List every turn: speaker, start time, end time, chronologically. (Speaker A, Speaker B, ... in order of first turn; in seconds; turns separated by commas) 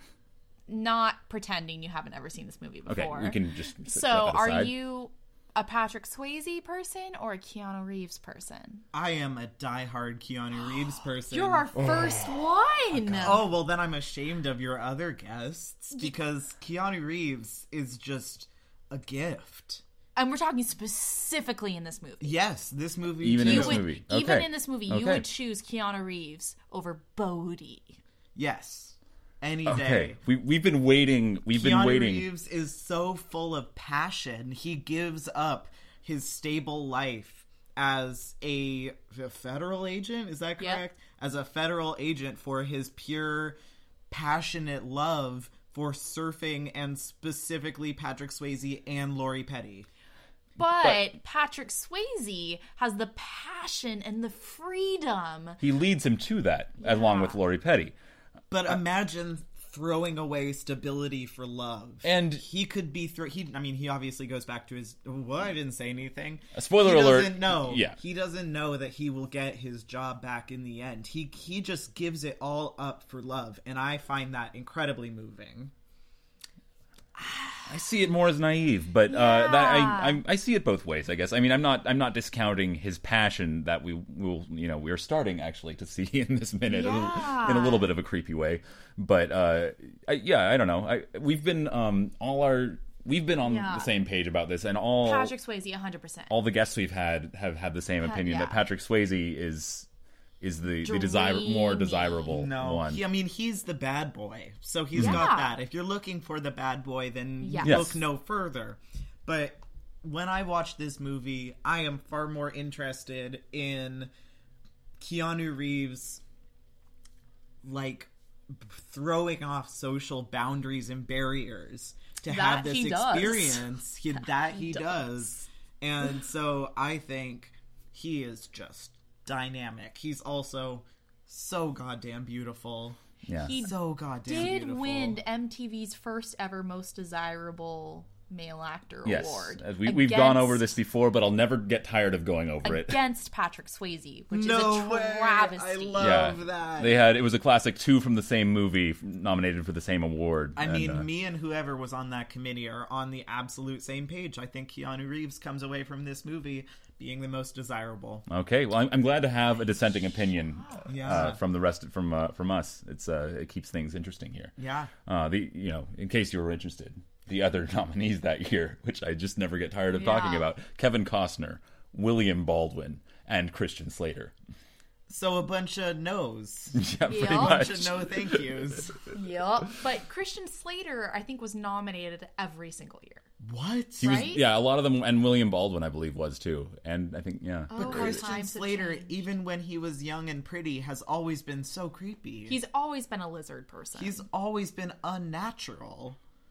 Speaker A: 0.7-8.8, Speaker B: 2.9-4.7, Speaker C: 8.9-12.2, Speaker A: 11.3-13.5, Speaker C: 13.2-19.8, Speaker A: 20.1-22.4, Speaker C: 22.2-23.9, Speaker B: 23.2-25.2, Speaker A: 23.4-28.0, Speaker C: 28.3-30.2, Speaker B: 29.6-32.3, Speaker C: 31.5-43.6, Speaker C: 44.1-49.9, Speaker A: 50.6-55.6, Speaker B: 55.6-57.9, Speaker A: 56.8-57.4, Speaker C: 58.5-75.7, Speaker B: 62.0-62.4, Speaker B: 66.5-68.0, Speaker A: 77.2-77.6, Speaker B: 77.7-95.3, Speaker A: 79.1-80.2, Speaker A: 86.7-87.9, Speaker A: 93.4-93.9, Speaker A: 95.0-96.3, Speaker B: 96.3-99.9, Speaker A: 98.0-98.6, Speaker B: 100.4-103.0, Speaker A: 100.8-102.3, Speaker C: 102.3-114.1, Speaker B: 105.0-105.2, Speaker A: 105.0-105.5, Speaker A: 107.4-107.8, Speaker B: 107.6-108.0, Speaker C: 115.0-116.2, Speaker C: 117.6-133.0, Speaker A: 122.3-123.7, Speaker A: 124.2-125.0, Speaker B: 133.3-133.6, Speaker A: 133.3-140.6, Speaker C: 133.6-135.2, Speaker B: 139.0-143.0, Speaker A: 142.6-146.2, Speaker C: 144.3-147.1, Speaker B: 146.0-151.1, Speaker C: 150.6-158.2, Speaker B: 158.3-164.5, Speaker A: 160.6-161.0, Speaker C: 160.9-161.4, Speaker C: 164.6-164.9, Speaker B: 165.1-174.3, Speaker A: 169.9-170.5, Speaker C: 175.1-179.0, Speaker B: 176.8-179.1, Speaker A: 177.0-178.0, Speaker A: 179.1-183.3, Speaker C: 183.4-184.3, Speaker B: 184.0-188.2, Speaker A: 184.0-184.4, Speaker A: 187.7-189.2, Speaker C: 187.8-192.6, Speaker A: 192.5-194.2, Speaker C: 193.9-196.2